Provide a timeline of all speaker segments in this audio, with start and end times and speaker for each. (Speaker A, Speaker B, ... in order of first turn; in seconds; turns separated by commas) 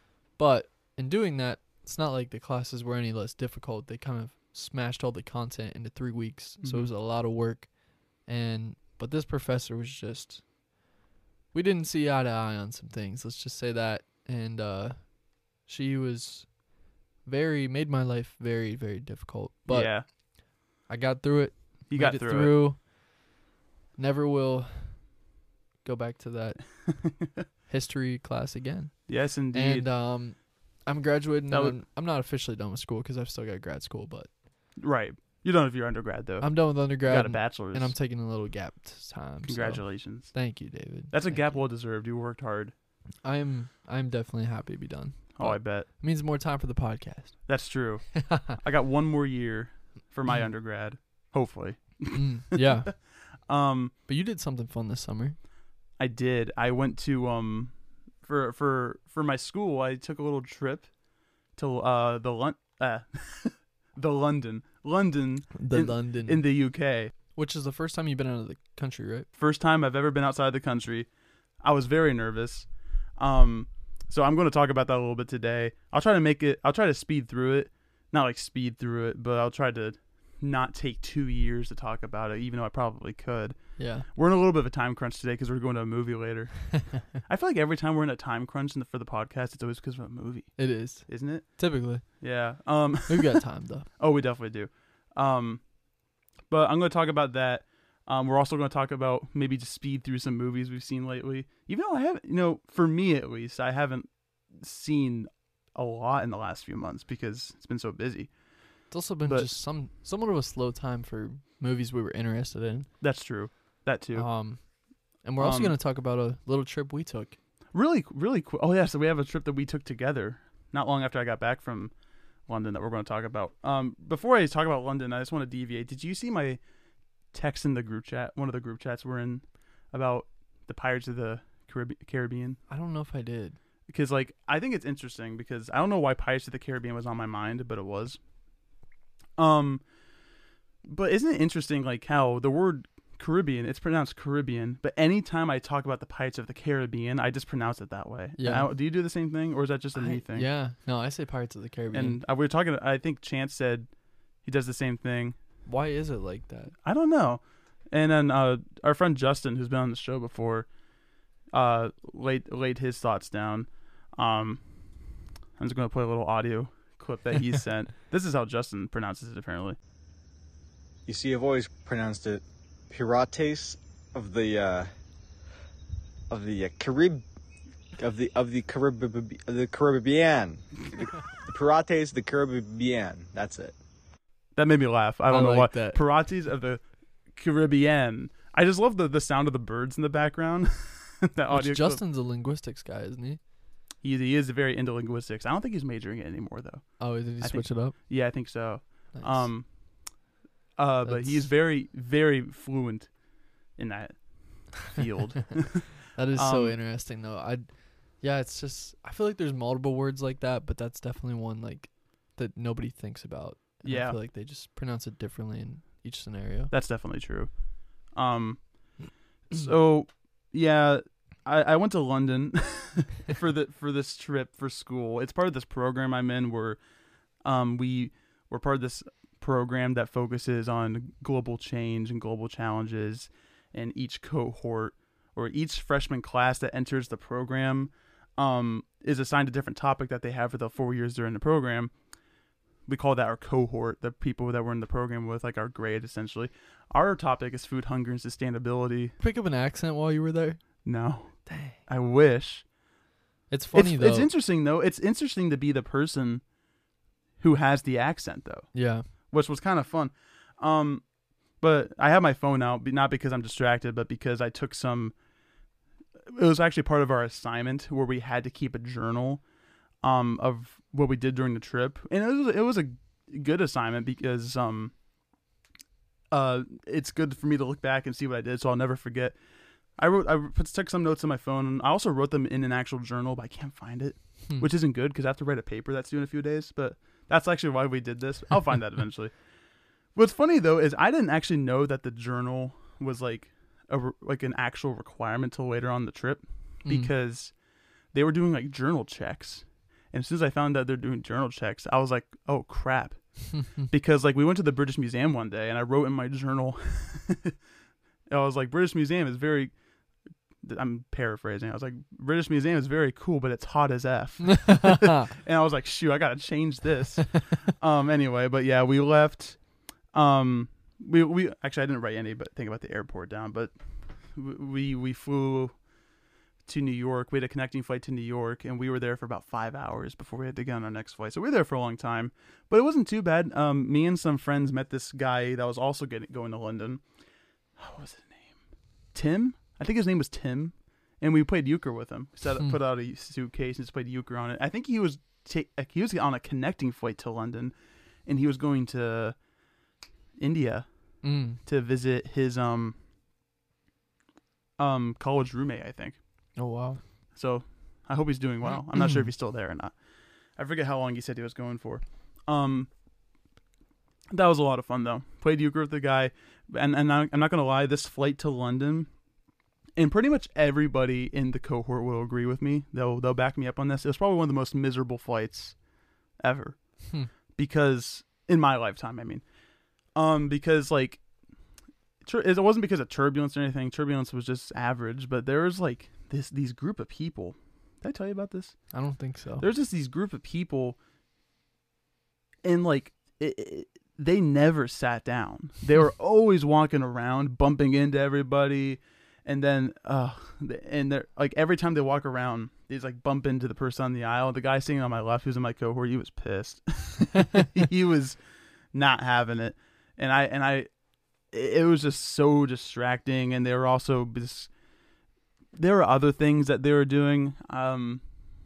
Speaker A: 0.3-10.5, Speaker B: 6.6-6.9, Speaker A: 11.5-16.6, Speaker A: 17.2-20.1, Speaker B: 19.7-20.1, Speaker A: 20.9-22.8, Speaker B: 21.9-22.6, Speaker A: 24.0-25.1, Speaker A: 25.8-26.7, Speaker B: 26.9-27.4, Speaker A: 27.7-34.3, Speaker B: 29.1-29.9, Speaker B: 31.5-31.8, Speaker B: 34.8-37.9, Speaker A: 36.4-41.6, Speaker B: 39.5-40.3, Speaker B: 41.1-42.7, Speaker A: 43.2-47.4, Speaker B: 45.3-45.9, Speaker B: 47.5-52.9, Speaker A: 48.1-48.6, Speaker A: 52.1-52.9, Speaker B: 53.5-53.9, Speaker A: 54.1-55.4, Speaker B: 56.0-60.9, Speaker B: 61.6-67.1, Speaker A: 65.6-66.5, Speaker A: 67.3-69.3, Speaker B: 69.4-71.1, Speaker B: 71.6-91.5, Speaker A: 83.8-84.1, Speaker A: 90.6-92.0, Speaker B: 92.2-93.4, Speaker A: 93.1-93.9, Speaker B: 94.0-95.6, Speaker B: 96.5-108.3, Speaker A: 108.9-112.9, Speaker B: 113.0-114.3, Speaker A: 114.1-114.6, Speaker A: 115.2-117.4, Speaker B: 115.4-115.8, Speaker B: 117.7-121.9, Speaker B: 122.5-126.6, Speaker B: 127.3-132.6, Speaker A: 132.7-133.6, Speaker B: 133.9-138.2, Speaker B: 139.4-139.8, Speaker B: 140.8-150.5, Speaker A: 148.4-148.7, Speaker A: 149.9-152.2, Speaker B: 151.9-153.9, Speaker B: 154.4-155.4, Speaker A: 155.7-156.7, Speaker B: 156.8-160.7, Speaker B: 161.5-164.6, Speaker B: 165.6-169.8, Speaker C: 171.1-174.9, Speaker C: 176.3-177.2, Speaker C: 178.0-183.8, Speaker B: 184.6-192.0, Speaker A: 185.3-186.0, Speaker A: 191.5-193.4, Speaker B: 194.0-199.7, Speaker A: 197.0-197.9, Speaker A: 199.1-199.5, Speaker B: 200.8-203.1, Speaker A: 201.1-201.5, Speaker B: 203.8-206.8, Speaker A: 206.1-207.7, Speaker A: 208.2-216.7, Speaker B: 213.8-214.2, Speaker B: 216.7-217.5, Speaker B: 218.1-218.9, Speaker B: 219.5-226.8, Speaker B: 227.4-241.9, Speaker B: 242.9-249.1, Speaker A: 249.2-250.6, Speaker B: 250.8-252.6, Speaker A: 251.4-251.8, Speaker A: 253.5-254.3, Speaker B: 253.7-256.4, Speaker B: 257.4-258.7, Speaker A: 258.7-259.1, Speaker B: 259.3-261.1, Speaker B: 261.6-265.1, Speaker B: 266.2-269.4, Speaker B: 270.0-274.9, Speaker B: 276.3-279.4, Speaker B: 280.0-289.3, Speaker B: 290.1-297.5, Speaker A: 296.9-297.1, Speaker B: 298.1-303.2, Speaker A: 303.6-303.8, Speaker B: 303.8-307.6, Speaker B: 308.3-309.7, Speaker B: 310.6-319.6, Speaker A: 314.6-315.3, Speaker B: 320.1-323.7, Speaker B: 324.3-325.7, Speaker B: 326.7-337.0, Speaker B: 337.8-338.6, Speaker B: 339.1-347.8, Speaker B: 348.2-349.4, Speaker B: 350.4-350.9, Speaker A: 351.2-351.6, Speaker B: 351.6-353.0, Speaker B: 354.8-356.2, Speaker A: 356.6-357.0, Speaker B: 357.4-359.9, Speaker A: 359.0-359.2, Speaker B: 360.6-362.9, Speaker B: 364.3-369.1, Speaker B: 370.0-375.8, Speaker B: 376.4-376.8, Speaker B: 377.6-379.4, Speaker B: 380.1-381.2, Speaker B: 382.2-388.8, Speaker A: 388.9-389.6, Speaker B: 389.6-391.0, Speaker B: 392.6-408.4, Speaker B: 408.9-410.9, Speaker B: 411.5-414.7, Speaker B: 415.8-418.2